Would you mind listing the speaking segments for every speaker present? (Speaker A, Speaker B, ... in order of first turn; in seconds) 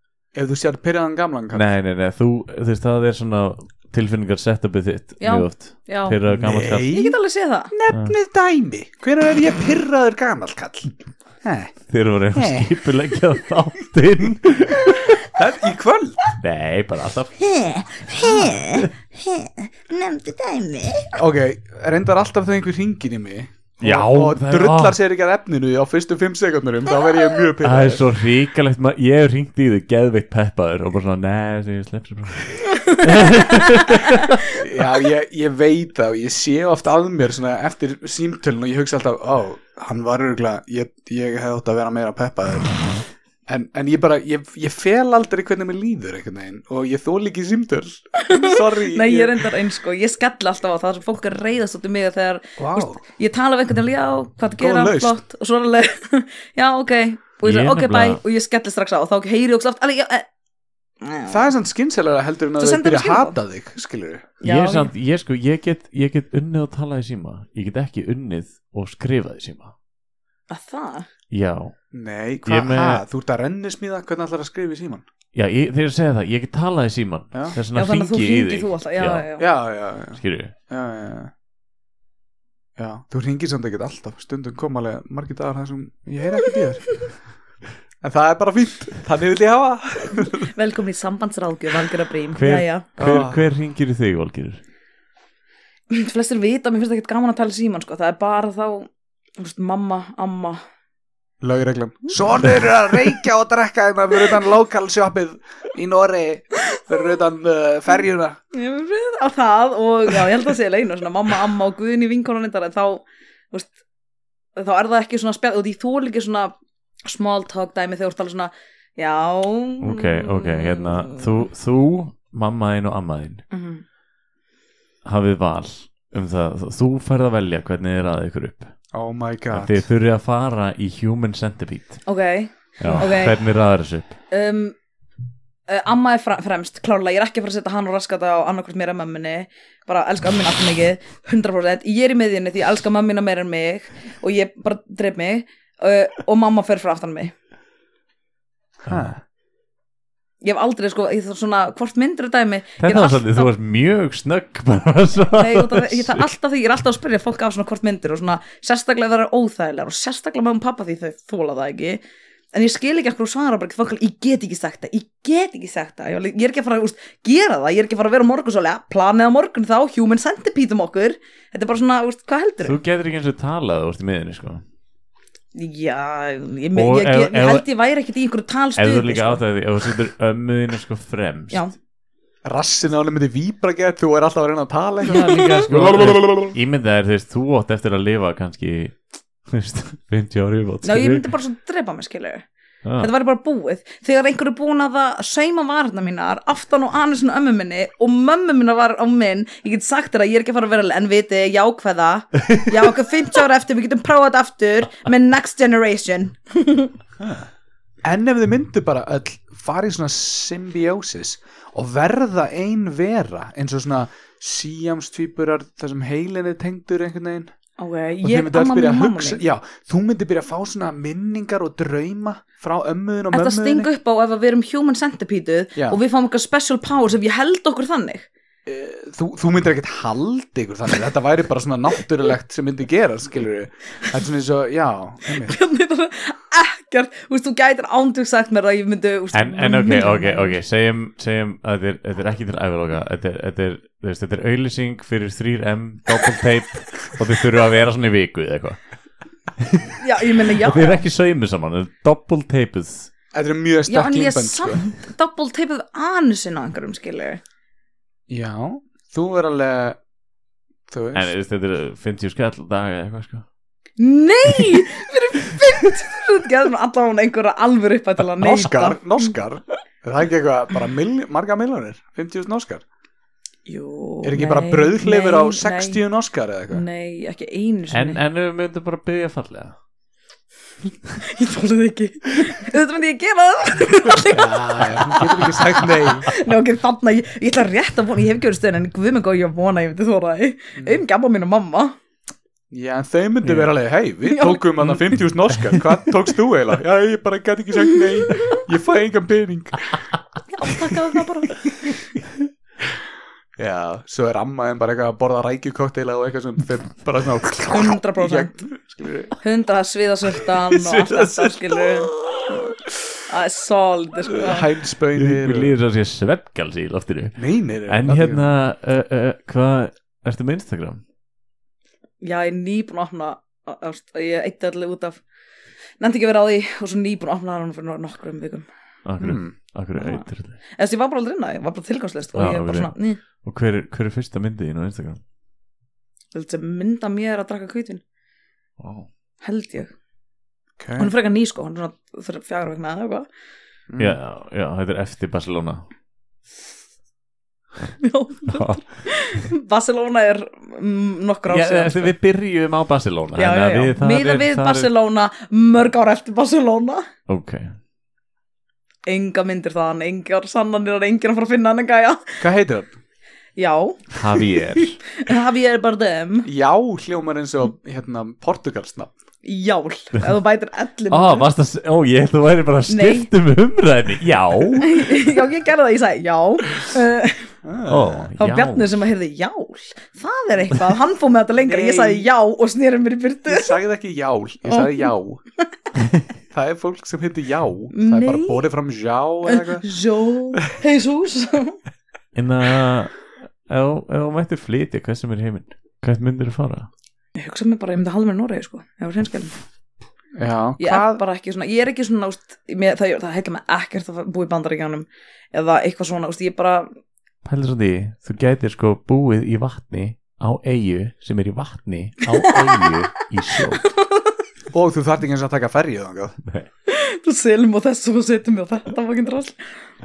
Speaker A: 0.3-1.7, 6.3-7.2, 7.7-11.7, 12.3-12.7, 15.2-16.2, 21.2-28.1, 34.5-42.9, 43.5-49.5, 52.6-53.0, 54.6-55.2, 61.3-64.3, 71.9-75.0, 79.4-81.3, 82.8-87.0, 88.0-90.5, 93.0-93.5, 101.4-108.4, 128.9-129.8, 148.8-149.2, 182.4-186.6, 208.0-217.5, 218.2-223.9, 228.7-235.6, 253.3-254.8, 258.3-260.0, 260.9-261.3, 268.4-272.8, 274.2-276.8, 284.3-286.3, 292.7-300.0, 303.6-309.4, 310.7-311.8, 314.3-315.8, 317.4-318.5, 329.2-329.5, 340.8-341.1, 343.9-344.2, 362.4-362.9, 366.4-369.1, 377.6-378.3, 381.6-382.3, 383.4-385.4, 386.5-389.9, 400.4-401.2, 414.7-416.4
Speaker B: 1.5-6.9, 7.9-8.2, 11.9-15.3, 16.4-17.4, 18.1-18.9, 23.8-25.0, 27.6-34.5, 57.4-58.2, 64.4-69.7, 71.3-71.7, 72.5-73.0, 75.3-79.3, 80.2-80.5, 92.3-94.6, 119.8-123.4, 125.0-128.7, 129.5-132.0, 132.8-134.2, 152.8-156.3, 172.6-174.6, 176.8-177.7, 178.8-181.7, 185.1-191.3, 192.8-193.1, 239.3-248.8, 249.6-253.1, 261.1-263.4, 277.9-279.8, 293.4-293.7, 295.6-295.8, 315.2-317.4, 317.9-321.0, 329.1-330.6, 332.4-335.2, 338.8-339.1, 344.0-345.8, 348.5-348.8, 351.5-354.9, 357.3-357.7, 364.1-365.0, 371.1-375.1, 377.9-379.1, 392.4-396.9, 407.4-413.9
Speaker C: 5.2-6.2, 6.8-7.7, 17.4-21.2, 27.1-27.4, 32.6-34.5, 48.2-60.3, 61.0-61.5, 62.6-63.4, 64.4-64.9, 70.5-71.1, 77.7-79.5, 90.4-92.9, 95.9-100.6, 108.5-113.8, 114.6-116.5, 117.0-121.3, 123.5-123.8, 132.1-133.4, 134.3-134.8, 135.7-147.3, 150.4-153.5, 155.3-162.0, 162.5-172.8, 175.6-179.4, 185.1-185.7, 190.8-192.4, 193.0-206.9, 217.8-219.4, 223.3-228.3, 235.4-240.6, 250.0-251.1, 253.9-257.4, 264.0-269.3, 273.7-276.0, 276.7-278.2, 281.2-291.9, 294.3-294.6, 298.3-298.6, 300.5-301.7, 307.7-308.7, 309.4-312.7, 313.3-314.7, 322.2-325.2, 326.0-328.7, 329.9-333.2, 336.3-338.0, 339.4-339.9, 341.0-343.3, 348.0-352.1, 353.4-357.1, 359.1-362.4, 363.6-364.1, 365.1-366.5, 369.4-371.5, 372.9-373.3, 374.8-377.5, 378.4-383.8, 384.7-385.1, 387.9-388.6, 389.4-391.8, 397.4-399.5, 400.8-406.9, 412.3-413.0, 413.6-414.4, 416.9-419.6